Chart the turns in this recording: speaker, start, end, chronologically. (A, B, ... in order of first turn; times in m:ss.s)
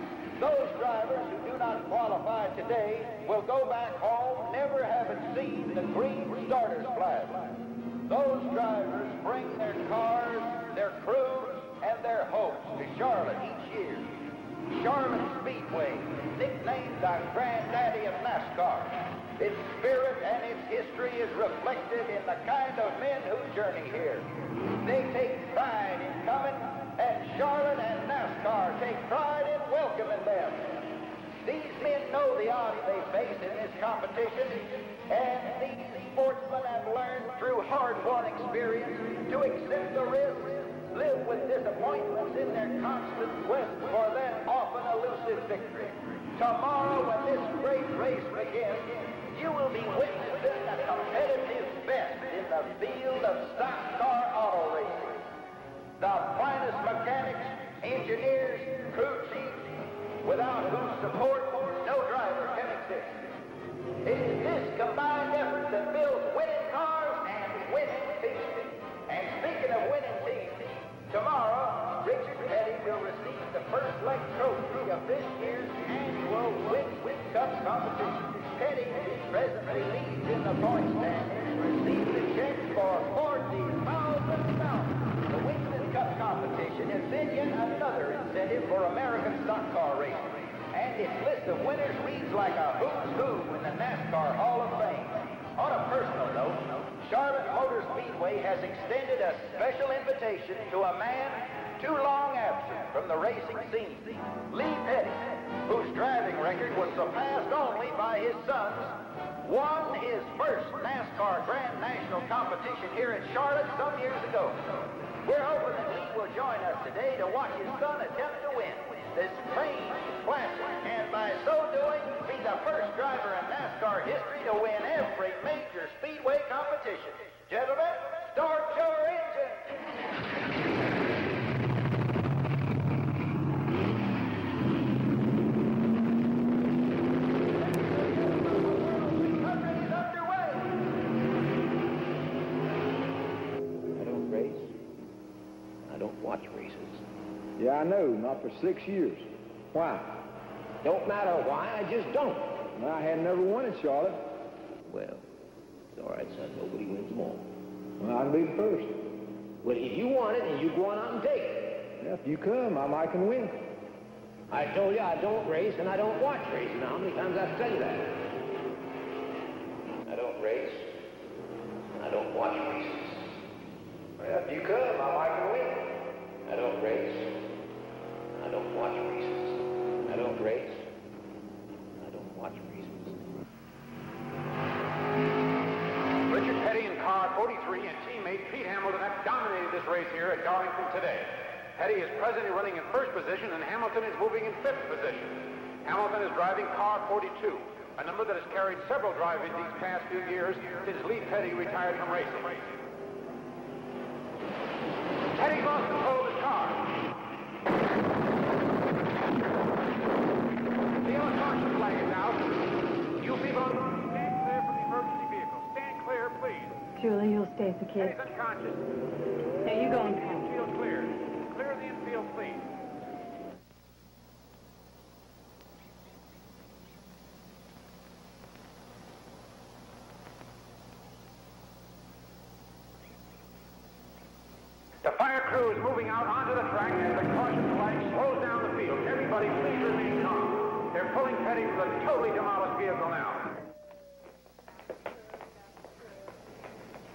0:00.4-0:07.5 A
0:08.1-0:14.1 A
0:14.7-0:24.3 A
0:24.8-0:30.8 A
0:31.4-0:55.3 A
0:56.0-0:59.7 A
1:00.2-1:03.3 A
1:04.0-1:54.7 A
1:55.2-2:09.8 A
2:18.8-2:20.7 A
2:24.0-2:24.7 B
2:25.9-2:27.0 B
2:27.6-2:30.2 C
2:30.8-2:32.6 B
2:32.8-2:34.3 C
2:34.9-2:35.3 B
2:35.9-2:37.5 B
2:38.0-2:39.0 C
2:39.6-2:41.9 B
2:42.0-2:43.7 C
2:44.5-2:48.3 B
2:50.0-2:50.9 B
2:52.0-2:53.3 B
2:54.8-2:55.8 B
2:56.4-2:57.5 B
2:58.4-3:00.9 B
3:02.0-3:03.2 B
3:06.3-3:22.8 D
3:25.4-3:26.9 D
3:31.0-3:32.6 D
3:33.2-3:36.8 D
3:37.0-3:38.3 E
3:38.0-3:38.8 D
3:39.6-3:40.5 E
3:40.0-3:42.7 D
3:55.0-4:03.6 D